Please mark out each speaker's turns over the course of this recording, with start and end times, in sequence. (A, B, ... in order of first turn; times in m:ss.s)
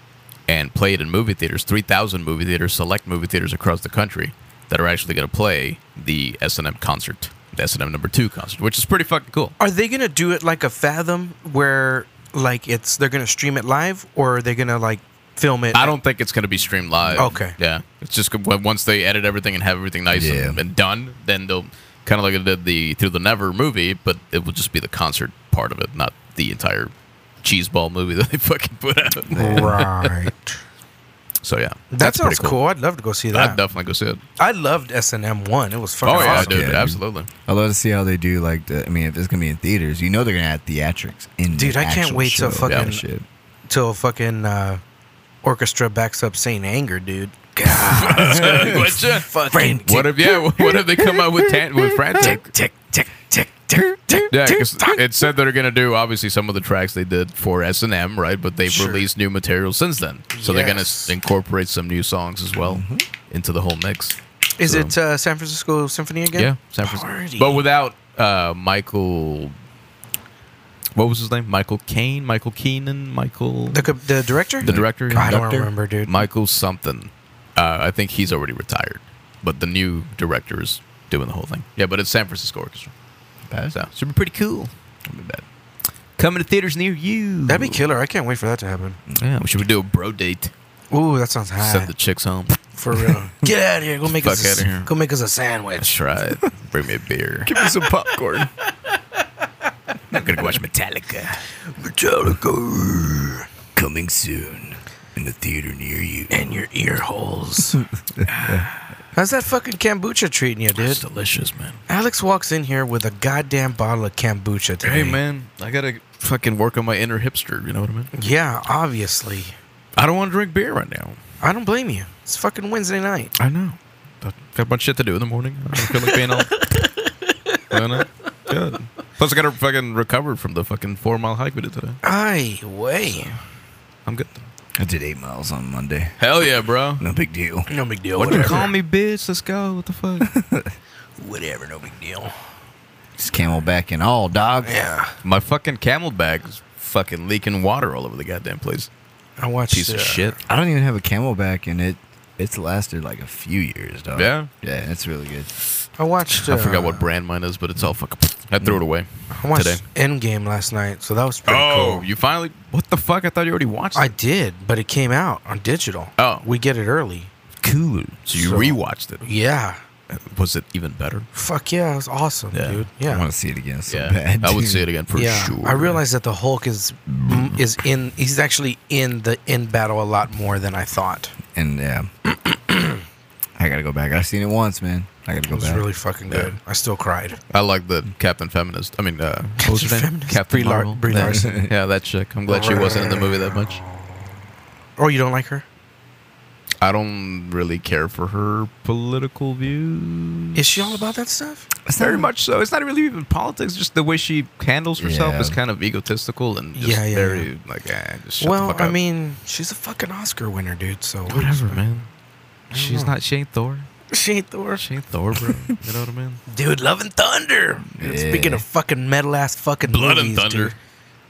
0:00.5-0:09.6 A
0:09.6-0:15.9 B
0:15.7-0:30.3 A
0:17.2-0:17.6 B
0:20.1-0:20.6 C
0:29.3-0:29.8 C
0:29.3-0:30.6 B
0:31.4-0:32.6 A
0:31.9-0:33.6 B
0:33.3-0:34.2 A
0:34.4-0:36.7 B
0:36.0-0:37.3 A
0:36.1-0:43.2 C
0:41.5-0:43.0 B
0:42.6-0:42.9 A
0:43.7-0:44.8 B
0:45.4-0:50.1 B
0:47.8-0:49.3 A
0:48.3-0:48.8 C
0:49.5-0:52.4 C
0:49.8-0:52.4 A
0:52.1-0:55.2 B
0:54.3-1:04.9 A
0:58.7-0:59.1 B
1:00.3-1:01.1 B
1:02.6-1:03.1 C
1:04.6-1:07.6 B
1:06.4-1:09.6 A
1:10.9-1:13.9 A
1:13.7-1:16.1 B
1:14.6-1:15.4 A
1:14.6-1:15.7 C
1:16.1-1:22.9 A
1:23.5-1:23.7 C
1:23.7-1:24.7 A
1:25.1-1:25.4 C
1:26.2-1:27.8 A
1:27.5-1:29.0 B
1:29.2-1:30.5 A
1:30.9-1:31.9 B
1:31.6-1:32.6 A
1:32.8-1:35.9 B
1:34.1-1:34.9 A
1:35.8-1:37.5 A
1:37.4-1:38.5 C
1:40.1-1:41.4 A
1:41.8-1:43.4 B
1:43.7-1:46.4 C
1:46.3-1:47.8 B
1:47.8-1:48.7 C
1:48.4-1:48.6 A
1:49.1-1:51.0 B
1:50.8-1:51.8 A
1:51.9-1:55.2 B
1:54.8-1:58.1 A
1:58.1-1:59.5 B
2:00.0-2:01.2 A
2:01.4-2:03.4 B
2:03.4-2:06.6 A
2:05.8-2:08.0 B
2:07.7-2:12.0 A
2:12.0-2:13.4 B
2:14.1-2:14.4 A
2:14.8-2:16.2 C
2:16.2-2:17.0 A
2:17.0-2:17.7 C
2:17.7-2:18.7 B
2:18.2-2:20.3 A
2:18.3-2:18.6 C
2:20.2-2:20.7 C
2:21.2-2:22.3 B
2:23.2-2:24.7 C
2:24.6-2:25.1 B
2:25.2-2:28.9 A
2:29.4-2:30.4 B
2:29.7-2:30.4 A
2:30.5-2:35.5 C
2:34.1-2:34.5 A
2:36.0-2:37.0 B
2:36.3-2:39.8 A
2:39.3-2:42.1 B
2:41.5-2:44.1 A
2:43.9-2:47.3 B
2:46.2-2:46.4 A
2:47.6-2:49.3 A
2:48.3-2:49.8 B
2:50.1-2:51.3 A
2:51.3-2:53.2 B
2:52.5-2:52.8 A
2:53.1-2:54.8 C
2:53.9-2:56.0 A
2:55.2-3:01.3 B
2:57.2-2:57.6 A
3:01.5-3:02.1 C
3:02.7-3:02.9 B
3:03.6-3:05.8 C
3:05.5-3:07.4 B
3:06.3-3:06.5 A
3:07.5-3:13.8 A
3:09.6-3:11.6 B
3:11.1-3:11.7 C
3:12.5-3:14.1 B
3:15.0-3:15.6 B
3:16.8-3:21.0 A
3:20.6-3:21.7 B
3:21.9-3:22.3 C
3:22.0-3:29.0 A
3:25.0-3:25.6 C
3:26.8-3:27.5 B
3:28.4-3:31.8 B
3:31.3-3:32.1 A
3:32.7-3:33.1 B
3:32.7-3:33.9 A
3:34.1-3:34.8 B
3:34.8-3:36.4 A
3:36.5-3:40.7 B
3:37.9-3:38.6 C
3:39.9-3:40.7 A